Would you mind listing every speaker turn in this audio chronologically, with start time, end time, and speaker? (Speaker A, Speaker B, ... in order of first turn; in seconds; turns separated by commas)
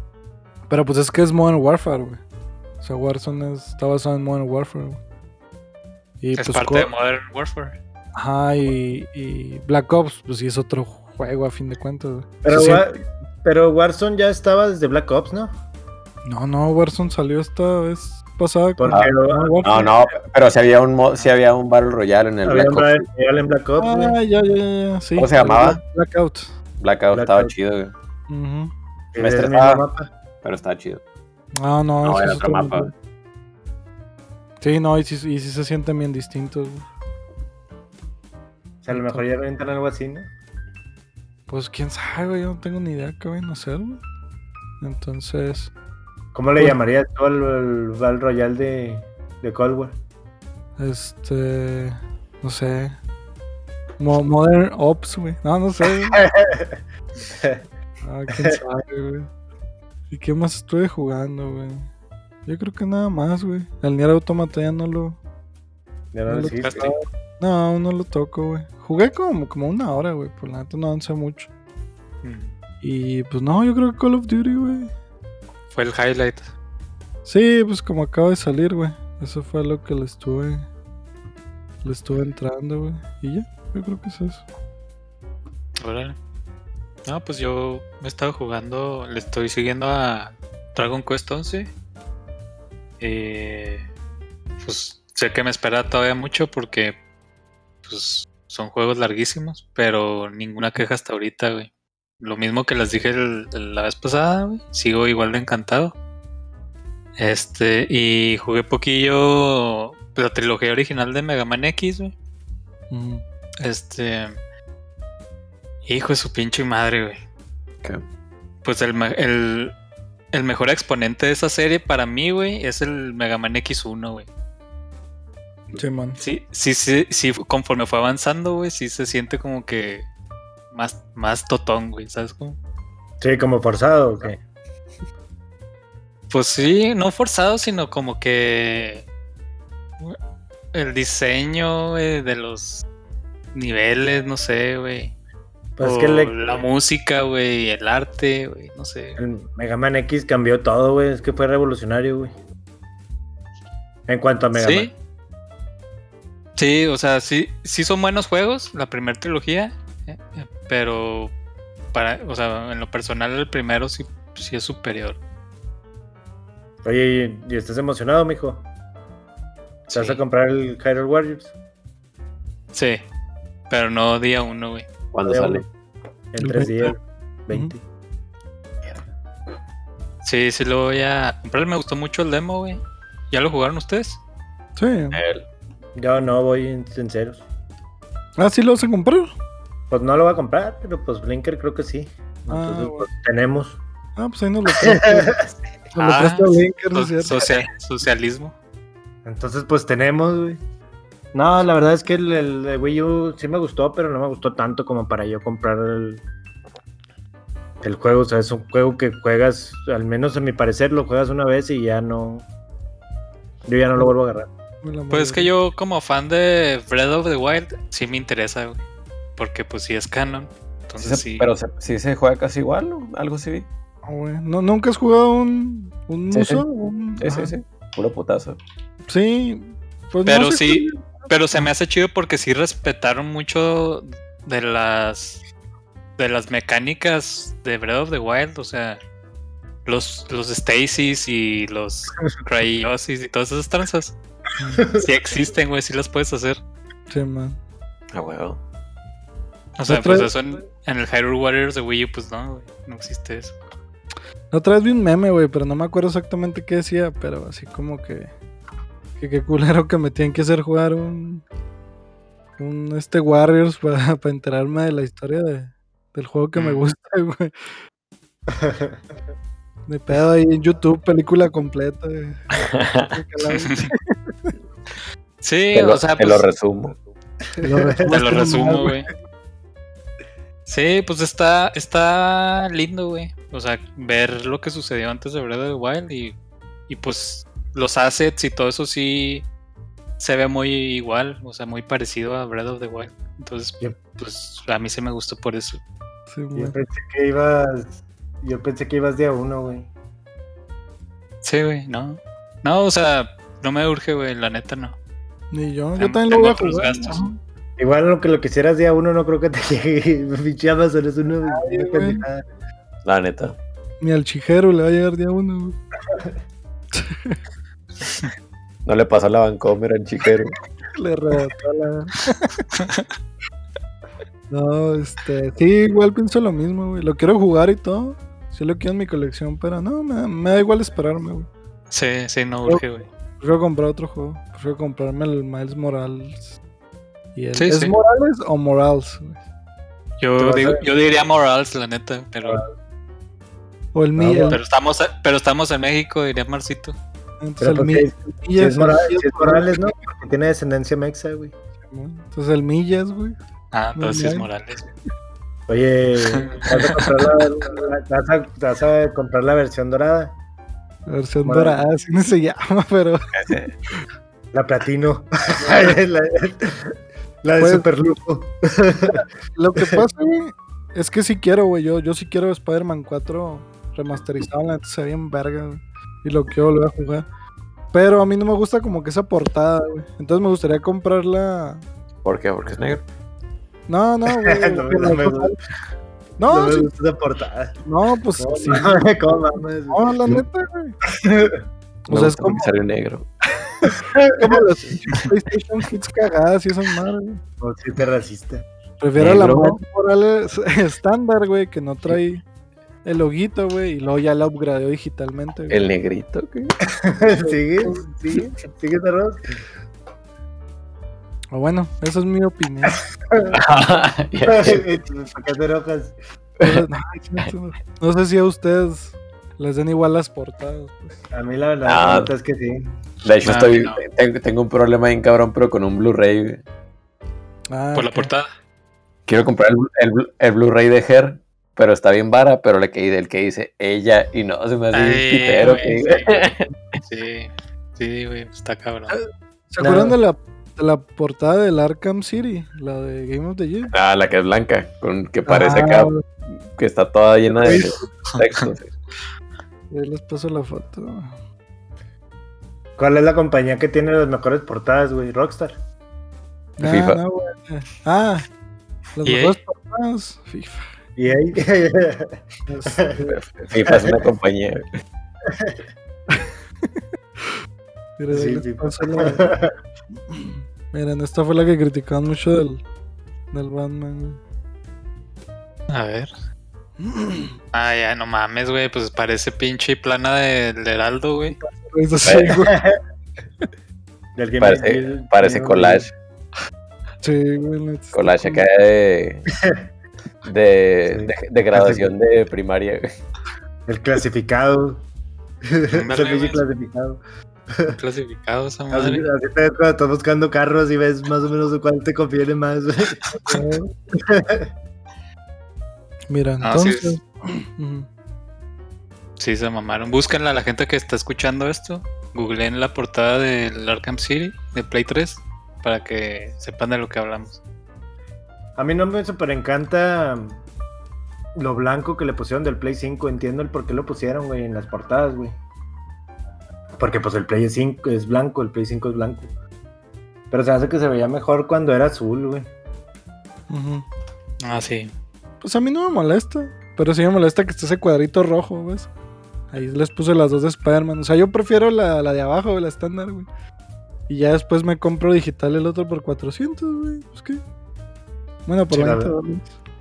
Speaker A: 0.7-2.2, Speaker A: 2.8-5.0, Speaker A: 6.2-6.9, Speaker B: 6.3-7.8, Speaker A: 8.2-12.8, Speaker C: 12.4-15.6, Speaker A: 16.2-20.2, Speaker C: 18.8-19.6, Speaker D: 19.6-23.1, Speaker C: 22.4-24.2, Speaker A: 23.8-26.5, Speaker D: 25.1-25.8, Speaker D: 26.8-27.9, Speaker C: 27.1-27.5, Speaker A: 28.3-28.7, Speaker C: 29.1-30.1, Speaker D: 29.1-29.8, Speaker D: 30.4-31.0, Speaker A: 31.6-32.9, Speaker D: 32.0-32.9, Speaker A: 34.6-36.9, Speaker C: 38.8-40.3, Speaker A: 38.9-39.2, Speaker A: 41.5-44.0, Speaker A: 44.8-45.7, Speaker C: 46.3-50.0, Speaker A: 50.8-53.0, Speaker A: 54.0-56.2, Speaker C: 56.1-56.8, Speaker A: 58.0-59.3, Speaker A: 60.1-61.9, Speaker A: 62.5-65.2, Speaker C: 66.1-66.9, Speaker A: 66.3-71.5, Speaker B: 66.6-66.9, Speaker B: 72.2-72.5, Speaker A: 72.8-74.9, Speaker B: 75.7-76.5, Speaker A: 77.2-80.6, Speaker A: 81.8-84.4, Speaker B: 85.8-86.2, Speaker B: 87.0-91.7, Speaker B: 93.0-93.8, Speaker B: 94.6-97.0, Speaker B: 97.8-105.9, Speaker B: 107.2-112.1, Speaker A: 112.9-113.2, Speaker B: 113.6-114.4, Speaker B: 115.8-117.2, Speaker B: 118.6-119.7, Speaker B: 120.3-124.3, Speaker A: 125.7-126.2, Speaker B: 126.2-130.1, Speaker B: 130.7-132.6, Speaker C: 133.2-134.4, Speaker B: 136.3-139.1, Speaker B: 140.7-142.8, Speaker B: 143.5-145.1, Speaker C: 145.8-146.6, Speaker B: 145.8-149.2, Speaker C: 149.2-152.3, Speaker C: 154.1-154.9, Speaker B: 154.5-154.9, Speaker B: 156.6-161.3, Speaker B: 161.9-165.2, Speaker C: 166.8-168.7, Speaker B: 169.9-170.2, Speaker C: 169.9-171.5, Speaker B: 172.7-173.0, Speaker B: 173.7-174.9, Speaker D: 175.1-175.6, Speaker C: 175.2-175.6, Speaker C: 176.3-177.8, Speaker A: 176.4-176.9, Speaker B: 180.2-184.2, Speaker A: 184.8-185.2, Speaker D: 185.1-185.4, Speaker C: 185.9-187.4, Speaker A: 188.4-189.3, Speaker C: 189.9-193.8, Speaker A: 192.5-193.1, Speaker A: 194.2-195.3, Speaker C: 194.7-195.6, Speaker A: 195.9-197.4, Speaker B: 196.0-198.5, Speaker C: 199.2-200.6, Speaker C: 201.3-206.2, Speaker C: 207.8-212.4, Speaker C: 213.7-214.5, Speaker A: 214.8-215.5, Speaker B: 215.1-218.8, Speaker B: 219.4-221.5, Speaker D: 221.0-223.7, Speaker A: 224.0-227.5, Speaker D: 226.3-226.6, Speaker D: 227.2-228.6, Speaker A: 229.1-231.7, Speaker B: 230.2-235.4, Speaker B: 236.2-239.0, Speaker B: 239.8-244.2, Speaker A: 244.6-244.9, Speaker C: 244.7-245.1, Speaker B: 244.9-246.6, Speaker A: 247.1-247.6, Speaker D: 248.1-248.6, Speaker B: 249.8-253.6, Speaker A: 249.9-250.3, Speaker A: 254.5-258.3, Speaker A: 259.2-261.4, Speaker A: 262.6-267.5, Speaker B: 266.5-266.8, Speaker C: 268.6-269.0, Speaker A: 269.9-274.5, Speaker D: 272.5-273.1, Speaker B: 273.5-273.9, Speaker B: 275.4-276.5, Speaker D: 275.7-276.9, Speaker A: 277.6-279.0, Speaker C: 277.6-278.3, Speaker B: 278.1-279.1, Speaker B: 280.6-286.4, Speaker B: 286.9-289.5, Speaker B: 290.2-295.8, Speaker A: 296.3-296.8, Speaker C: 296.5-299.9, Speaker B: 301.4-304.9, Speaker A: 305.5-307.4, Speaker B: 306.0-307.2, Speaker C: 307.8-312.4, Speaker A: 311.4-312.2, Speaker D: 313.0-313.6, Speaker A: 314.0-315.8, Speaker A: 316.9-317.4, Speaker D: 318.9-320.6, Speaker A: 320.9-322.6, Speaker B: 322.7-323.1, Speaker A: 324.5-331.5, Speaker B: 331.9-333.1, Speaker A: 333.4-336.5, Speaker A: 337.3-339.4, Speaker B: 337.6-337.9, Speaker B: 340.2-342.6, Speaker C: 340.4-340.9, Speaker A: 343.9-344.6, Speaker C: 344.1-344.6, Speaker B: 344.5-346.9, Speaker A: 347.4-349.9, Speaker C: 347.6-351.5, Speaker A: 351.9-353.4, Speaker B: 353.7-354.9, Speaker A: 353.9-354.5, Speaker C: 355.7-360.4, Speaker B: 356.3-357.1, Speaker A: 361.1-363.2, Speaker C: 361.4-361.8, Speaker D: 363.3-363.7, Speaker C: 364.5-369.2, Speaker A: 365.6-365.9, Speaker A: 367.6-367.9, Speaker A: 369.1-377.2, Speaker A: 377.9-381.8, Speaker D: 382.2-383.0, Speaker A: 383.9-385.6, Speaker C: 384.3-385.5, Speaker A: 386.4-386.9, Speaker C: 386.5-387.8, Speaker A: 387.8-389.0, Speaker C: 388.4-390.4, Speaker A: 389.9-391.0, Speaker C: 391.0-391.6, Speaker A: 392.1-392.7, Speaker D: 392.1-393.3, Speaker A: 393.8-397.4, Speaker C: 394.1-394.5, Speaker C: 397.6-398.6, Speaker A: 399.0-402.4, Speaker D: 399.2-399.8, Speaker A: 403.0-405.8, Speaker D: 405.7-406.7, Speaker C: 406.9-409.5, Speaker A: 407.4-408.1, Speaker A: 411.5-413.0, Speaker C: 413.3-413.6, Speaker D: 413.5-415.0, Speaker C: 414.4-416.1, Speaker A: 416.6-421.2, Speaker C: 421.3-422.9, Speaker D: 421.8-422.3, Speaker D: 423.2-426.6, Speaker B: 423.4-424.0, Speaker A: 427.7-428.3, Speaker B: 427.9-428.5, Speaker D: 429.3-437.0, Speaker B: 434.9-436.4, Speaker A: 435.6-436.0, Speaker B: 437.0-439.2, Speaker A: 439.1-443.9, Speaker C: 439.8-440.1, Speaker D: 443.9-448.9, Speaker A: 445.4-446.2, Speaker C: 447.6-448.1, Speaker B: 448.3-448.7, Speaker A: 449.9-451.3, Speaker C: 453.0-455.8, Speaker D: 456.8-457.2, Speaker A: 456.8-458.4, Speaker A: 459.1-460.9, Speaker B: 459.2-459.6, Speaker C: 461.2-463.2, Speaker A: 462.7-463.4, Speaker D: 463.3-464.9, Speaker C: 463.8-464.2, Speaker C: 465.4-465.8, Speaker A: 468.2-469.5, Speaker C: 468.3-469.7, Speaker A: 470.3-472.8, Speaker A: 473.5-474.4, Speaker B: 475.9-476.3, Speaker A: 477.0-477.6, Speaker B: 477.7-481.6, Speaker A: 481.6-482.8, Speaker D: 482.2-482.6, Speaker C: 482.5-483.0, Speaker C: 484.4-486.1, Speaker D: 484.6-486.1, Speaker A: 487.2-488.6, Speaker D: 488.1-489.5, Speaker C: 489.5-489.8, Speaker D: 490.4-493.1, Speaker C: 491.1-492.1, Speaker C: 493.9-495.0, Speaker C: 495.6-498.0, Speaker B: 495.9-496.6, Speaker B: 497.9-499.3, Speaker C: 498.9-503.2, Speaker B: 503.3-503.6, Speaker A: 503.4-503.9, Speaker C: 504.2-504.7, Speaker A: 506.3-508.1, Speaker B: 506.6-507.2, Speaker B: 509.4-517.6, Speaker C: 518.8-520.6, Speaker C: 521.5-525.6, Speaker C: 527.0-529.5, Speaker C: 530.5-532.7, Speaker A: 533.7-534.0, Speaker B: 534.6-535.1, Speaker A: 535.6-539.1, Speaker A: 539.7-543.5, Speaker A: 544.3-547.6, Speaker A: 548.6-549.7, Speaker C: 548.9-549.3